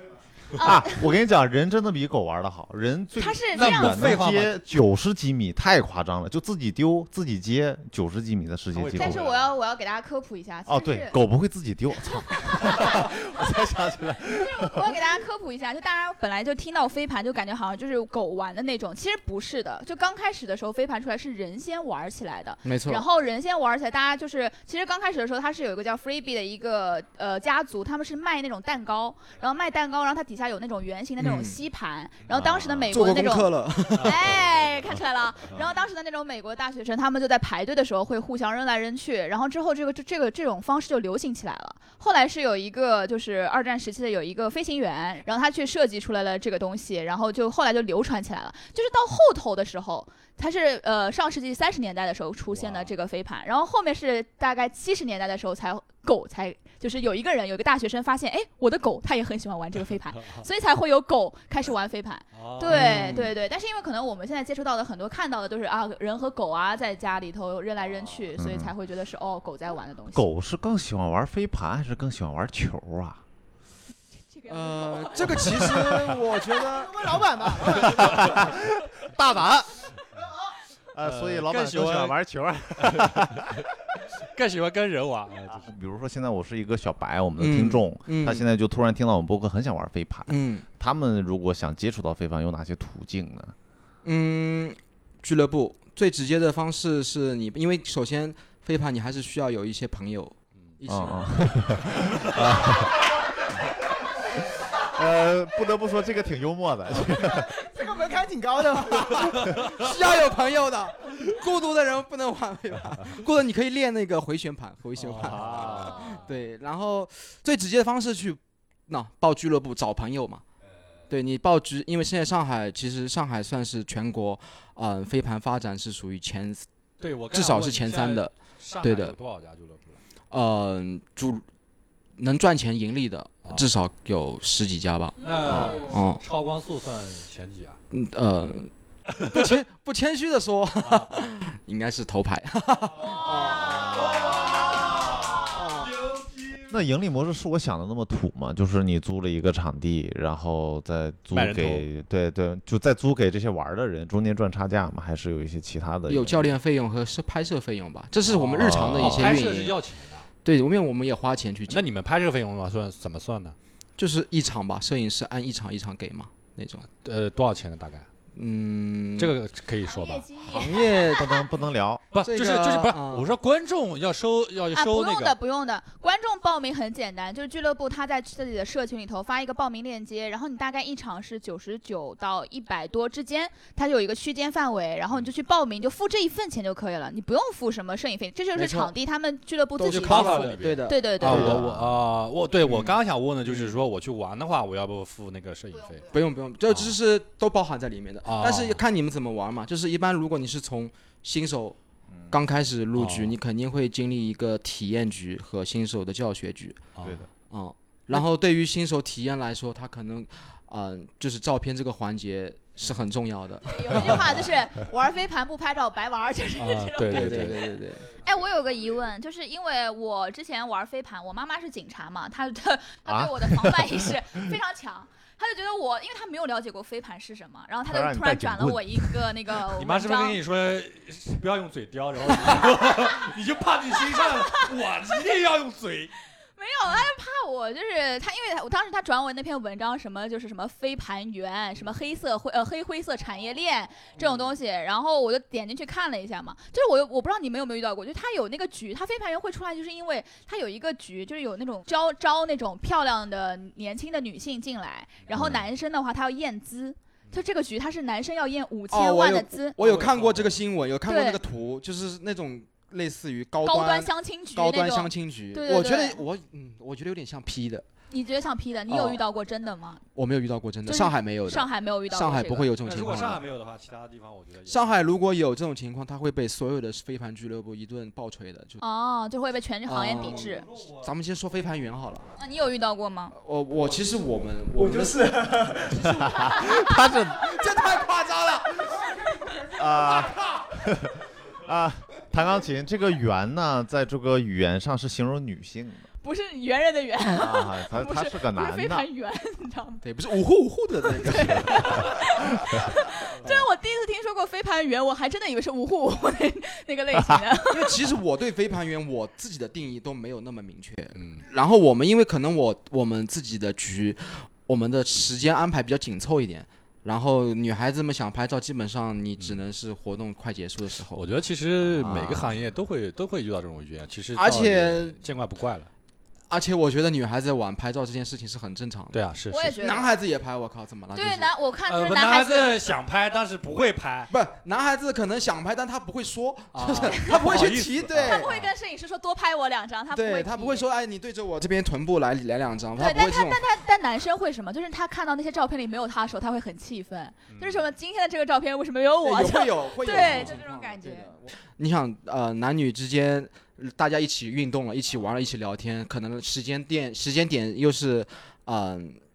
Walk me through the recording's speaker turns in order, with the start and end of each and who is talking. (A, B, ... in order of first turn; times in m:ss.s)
0:00.5-0:09.2 A
0:00.6-0:01.1 B
0:03.2-0:04.2 B
0:03.5-0:04.6 C
0:08.7-0:09.5 C
0:09.0-0:11.2 B
0:10.7-0:14.8 A
0:12.5-0:13.0 B
0:14.3-1:10.3 B
0:22.6-0:23.0 D
0:31.2-0:31.6 D
0:32.3-0:33.1 A
0:32.9-0:34.3 D
0:52.5-0:52.9 C
1:02.3-1:03.0 C
1:02.7-1:03.3 D
1:08.4-1:08.7 A
1:10.1-1:13.2 A
1:14.3-1:15.5 B
1:14.5-1:17.1 D
1:15.4-1:16.2 A
1:16.6-1:18.4 E
1:17.5-1:19.9 A
1:20.9-1:23.7 A
1:21.0-1:22.2 C
1:22.8-1:25.7 C
1:25.5-1:33.6 A
1:27.4-1:28.4 D
1:30.3-1:30.6 D
1:34.0-1:42.6 D
1:40.9-1:43.1 A
1:44.7-1:47.5 A
1:47.1-1:49.6 E
1:49.1-2:00.4 D
1:55.0-1:56.2 C
1:55.2-1:56.0 A
1:55.9-1:56.2 B
2:01.1-2:06.7 D
2:07.0-2:10.0 C
2:07.3-2:09.2 D
2:10.3-2:11.4 D
2:12.2-2:16.2 D
2:15.2-2:17.8 C
2:17.9-2:24.8 D
2:19.1-2:19.6 C
2:25.3-2:26.0 D
2:26.7-2:36.5 A
2:31.3-2:31.9 C
2:36.1-2:39.8 D
2:38.2-2:40.3 C
2:38.6-2:39.4 A
2:40.4-2:41.8 D
2:41.7-2:43.6 C
2:44.0-2:46.9 D
2:47.0-2:48.1 C
2:48.4-2:49.4 D
2:49.2-2:50.3 C
2:49.9-2:51.5 B
2:50.4-2:51.3 D
2:51.0-2:52.0 A
2:52.1-2:55.4 C
2:52.2-2:53.3 D
2:54.7-3:11.6 B
3:08.6-3:08.9 D
3:09.8-3:11.7 D
3:09.9-3:16.1 C
3:11.4-3:12.0 A
3:12.6-3:13.8 D
3:15.8-3:16.2 B
3:16.1-3:21.8 D
3:16.7-3:17.0 C
3:18.2-3:18.8 C
3:22.1-3:22.4 A
3:22.3-3:26.8 D
3:23.0-3:23.4 C
3:27.0-3:27.2 C
3:27.0-3:27.3 A
3:27.5-3:34.5 D
3:33.6-3:37.7 B
3:36.6-3:37.6 C
3:37.1-3:38.0 D
3:38.2-3:50.4 B
3:43.1-3:44.2 A
3:47.9-3:49.3 A
3:49.8-3:56.1 C
3:54.1-3:54.7 B
3:56.6-4:19.8 B
4:15.3-4:15.7 A
4:18.9-4:27.9 D
4:19.8-4:20.6 C
4:21.1-4:21.4 B
4:23.6-4:26.2 B
4:28.1-4:30.0 B
4:28.9-4:29.2 D
4:30.2-4:33.4 D
4:30.9-4:32.7 B
4:32.8-4:35.1 C
4:34.7-4:38.8 D
4:38.8-4:40.7 B
4:39.9-4:42.3 D
4:40.3-4:41.0 C
4:42.4-4:43.3 B
4:43.4-4:45.3 D
4:44.8-4:46.4 E
4:46.0-4:47.6 A
4:46.6-4:49.1 D
4:49.7-4:56.1 A
4:56.2-5:00.0 B
4:57.4-4:59.1 A
5:00.0-5:02.1 D
5:01.1-5:08.0 B
5:07.2-5:07.4 A
5:07.7-5:21.2 D
5:11.2-5:11.4 C
5:21.1-5:25.9 C
5:22.0-5:22.5 A
5:24.4-5:25.2 D
5:26.5-5:29.2 D
5:29.1-5:29.8 C
5:29.5-5:30.2 B
5:29.7-5:31.5 D
5:31.1-5:32.8 B
5:31.9-5:34.3 C
5:34.3-5:38.5 D
5:36.7-5:38.7 C
5:37.1-5:37.4 B
5:38.2-5:40.9 B
5:40.1-5:43.6 D
5:43.0-5:51.3 B
5:47.5-5:47.8 C
5:49.2-5:59.2 D
5:50.1-5:50.6 C